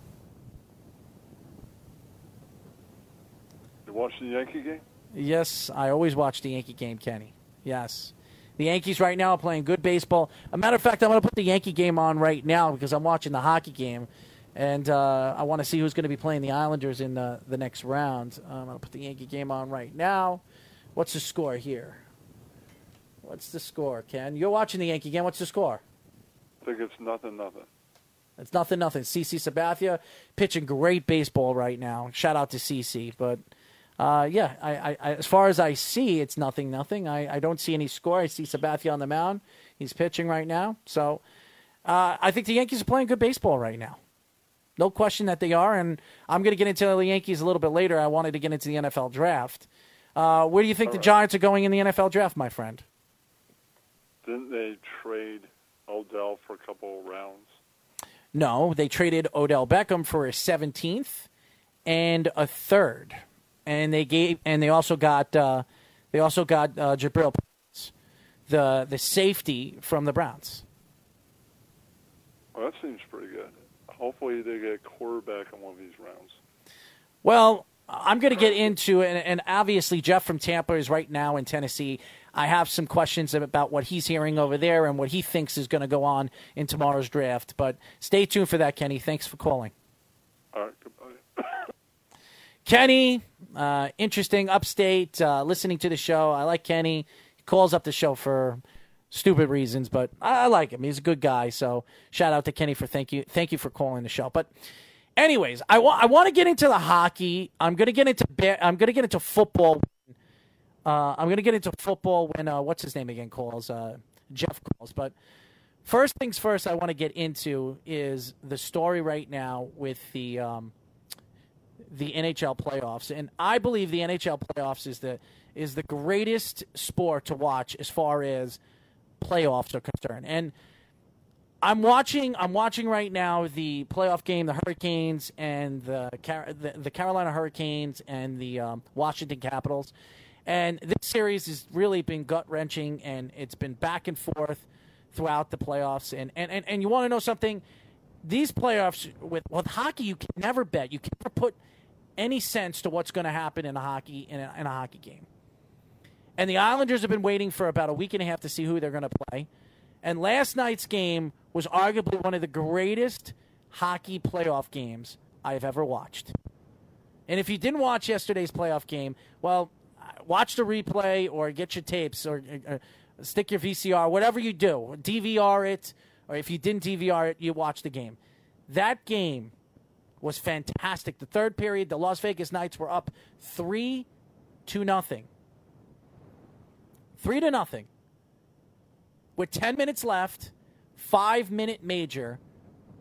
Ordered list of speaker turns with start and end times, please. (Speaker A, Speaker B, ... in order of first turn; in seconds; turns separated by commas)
Speaker A: 3.9-4.8, Speaker B: 5.1-20.4, Speaker B: 20.9-22.0, Speaker B: 23.2-25.8, Speaker A: 26.6-27.7, Speaker B: 28.4-33.4, Speaker B: 34.0-41.2, Speaker B: 41.9-44.0, Speaker B: 44.8-52.9, Speaker A: 50.9-51.1, Speaker A: 54.2-57.5, Speaker B: 58.3-61.3, Speaker B: 61.9-67.9, Speaker B: 68.5-70.6, Speaker A: 72.5-76.4, Speaker B: 77.2-89.7, Speaker A: 90.5-91.6, Speaker B: 92.7-104.5, Speaker B: 105.2-110.1, Speaker B: 110.9-115.1, Speaker B: 115.8-120.7, Speaker B: 121.9-128.6, Speaker B: 129.2-130.5, Speaker B: 131.6-139.9, Speaker B: 140.5-147.6, Speaker B: 148.2-151.6, Speaker B: 152.2-155.3, Speaker B: 156.4-159.5, Speaker B: 160.0-166.3, Speaker B: 167.3-179.5, Speaker B: 180.2-184.1, Speaker B: 184.7-185.3, Speaker B: 187.2-187.9, Speaker B: 189.4-192.4